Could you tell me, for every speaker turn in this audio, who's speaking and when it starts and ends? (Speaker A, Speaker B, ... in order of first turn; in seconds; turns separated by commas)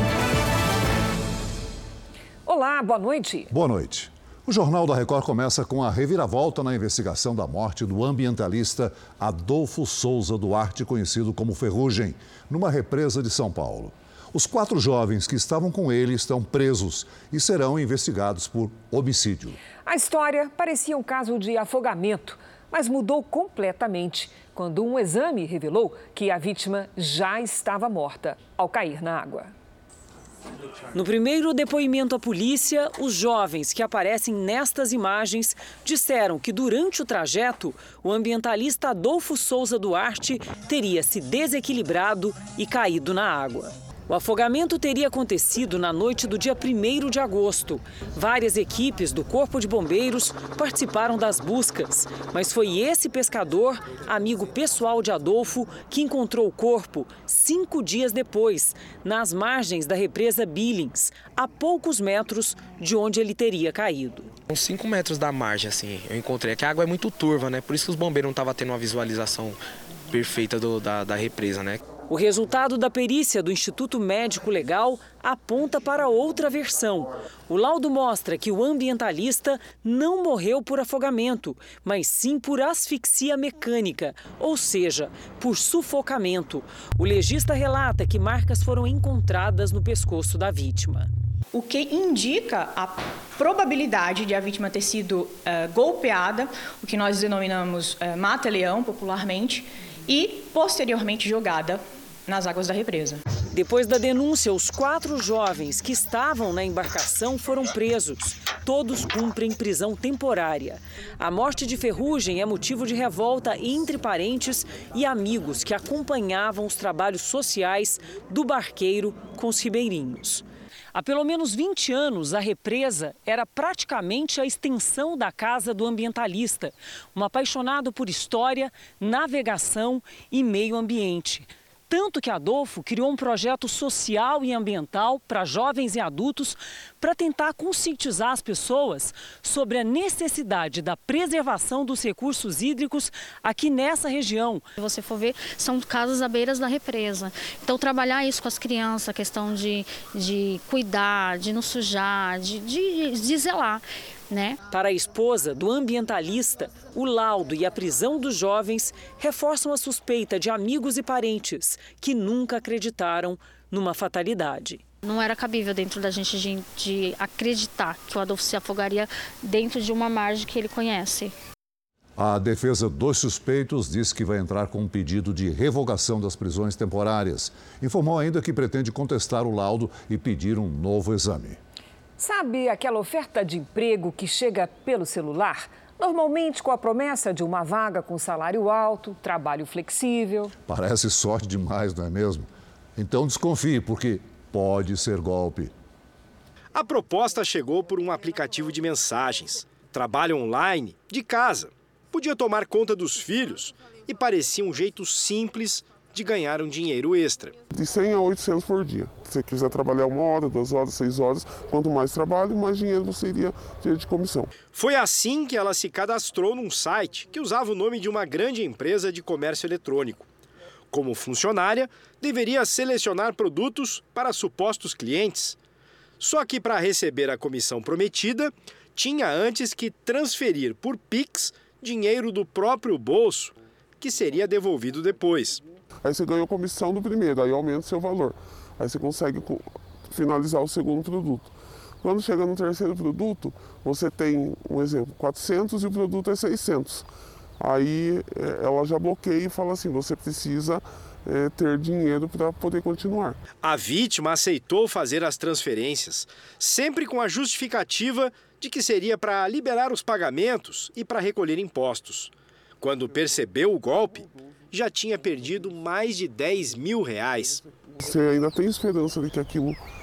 Speaker A: 2.5-3.5, Speaker B: 3.5-19.6, Speaker A: 19.8-29.5, Speaker C: 30.9-64.3, Speaker D: 64.5-69.6, Speaker D: 70.1-71.8, Speaker C: 72.1-91.1, Speaker E: 91.5-103.2, Speaker C: 103.5-144.7, Speaker F: 144.8-154.6, Speaker C: 154.7-164.8, Speaker F: 165.0-171.3, Speaker B: 172.2-181.6, Speaker A: 182.2-190.5, Speaker B: 190.7-195.7, Speaker G: 196.7-207.5, Speaker H: 207.7-214.5, Speaker G: 214.7-220.2, Speaker G: 220.9-225.6, Speaker G: 226.2-235.6, Speaker H: 236.0-247.1, Speaker H: 247.6-253.4, Speaker G: 253.6-267.7, Speaker H: 267.8-269.8